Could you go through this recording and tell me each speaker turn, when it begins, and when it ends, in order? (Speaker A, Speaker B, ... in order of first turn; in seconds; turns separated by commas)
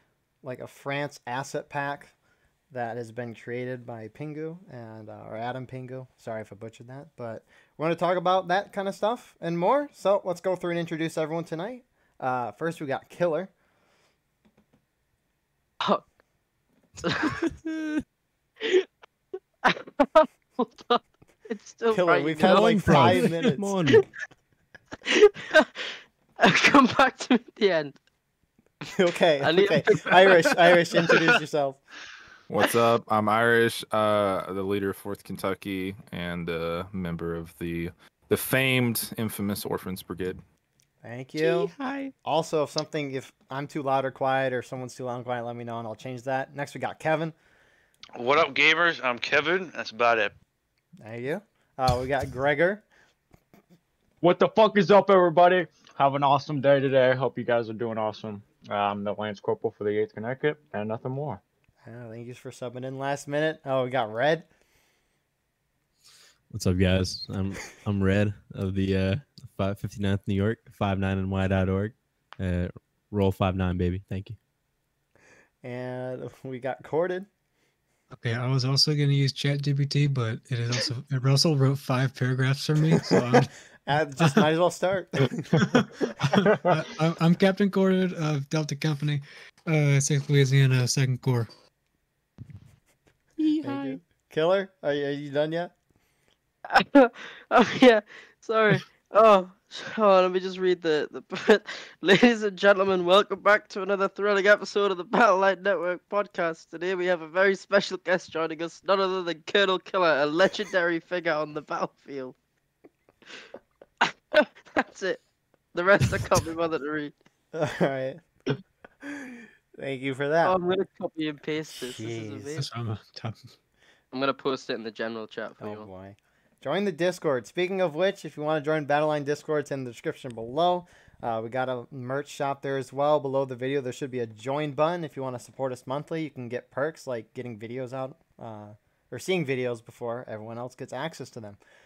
Speaker A: 0.4-2.1, Speaker A: 2.7-13.5, Speaker B: 17.0-17.4, Speaker C: 17.4-18.0, Speaker B: 18.6-18.9, Speaker B: 19.6-23.3, Speaker A: 21.9-23.7, Speaker C: 22.4-24.1, Speaker B: 25.1-27.9, Speaker A: 28.9-31.8, Speaker B: 29.4-30.6, Speaker D: 32.5-40.4, Speaker A: 41.0-41.7, Speaker C: 41.4-42.1, Speaker A: 42.2-47.3, Speaker E: 48.2-50.3, Speaker A: 51.0-52.8, Speaker F: 54.2-61.4, Speaker A: 61.8-64.5, Speaker C: 66.5-74.4, Speaker A: 75.6-77.3, Speaker G: 78.2-83.5, Speaker A: 83.9-86.1, Speaker G: 84.2-84.5, Speaker G: 85.6-91.5, Speaker C: 93.4-94.0, Speaker A: 93.6-95.7, Speaker B: 96.7-112.4, Speaker B: 114.0-115.2, Speaker B: 115.7-117.1, Speaker A: 117.5-118.2, Speaker A: 119.0-120.5, Speaker B: 120.4-122.7, Speaker A: 121.7-122.5, Speaker G: 122.6-123.4, Speaker B: 124.1-125.9, Speaker A: 125.6-141.6